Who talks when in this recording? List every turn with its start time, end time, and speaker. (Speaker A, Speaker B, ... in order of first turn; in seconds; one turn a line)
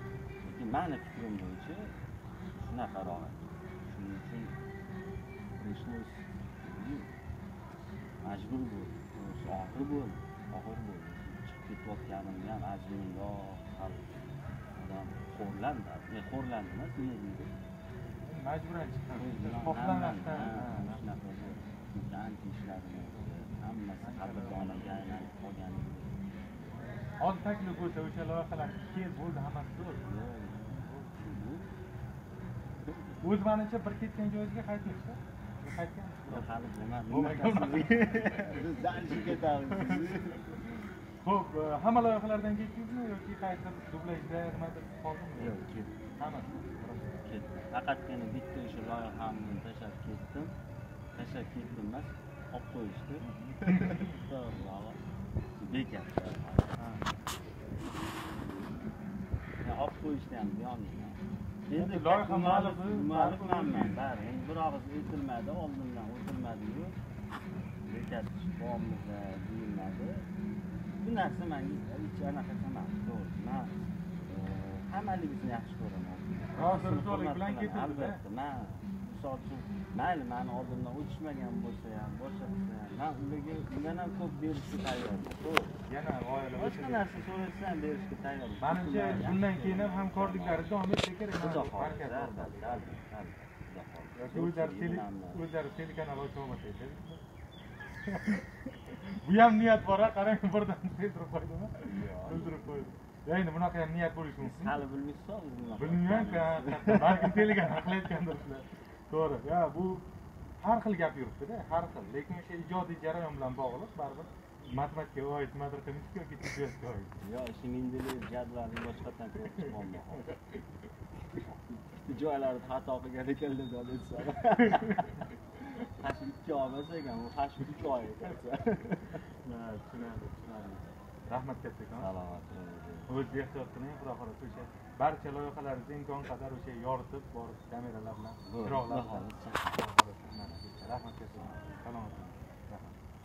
Speaker A: 0.4-1.9
Speaker A: 2.5-4.5
Speaker A: 5.6-7.1
Speaker A: 8.2-14.1
Speaker A: 14.8-17.5
Speaker B: 18.2-21.0
Speaker A: 19.1-26.2
Speaker B: 24.0-25.3
Speaker B: 27.2-30.0
Speaker A: 30.1-31.8
Speaker A: 32.6-33.4
Speaker B: 33.2-36.5
Speaker A: 36.3-40.6
Speaker B: 37.1-38.7
Speaker B: 39.3-40.6
Speaker B: 41.2-45.6
Speaker A: 45.4-46.0
Speaker B: 46.2-47.2
Speaker A: 47.2-50.5
Speaker A: 51.1-55.0
Speaker B: 53.2-54.2
Speaker A: 55.6-56.8
Speaker B: 56.8-57.0
Speaker A: 59.6-67.0
Speaker B: 61.8-64.0
Speaker A: 67.8-70.3
Speaker A: 71.0-85.8
Speaker B: 76.5-78.2
Speaker B: 85.9-87.2
Speaker A: 86.6-90.8
Speaker B: 88.6-92.9
Speaker A: 91.4-95.5
Speaker B: 94.2-97.2
Speaker B: 98.0-104.8
Speaker A: 101.9-102.8
Speaker A: 104.4-108.0
Speaker B: 105.8-110.0
Speaker B: 110.6-117.2
Speaker A: 117.2-120.3
Speaker B: 119.6-120.4
Speaker A: 121.3-125.3
Speaker B: 124.6-125.3
Speaker A: 126.0-129.2
Speaker B: 129.4-130.4
Speaker A: 130.2-131.0
Speaker B: 131.3-132.1
Speaker A: 131.9-133.1
Speaker B: 133.1-143.0
Speaker A: 138.5-141.6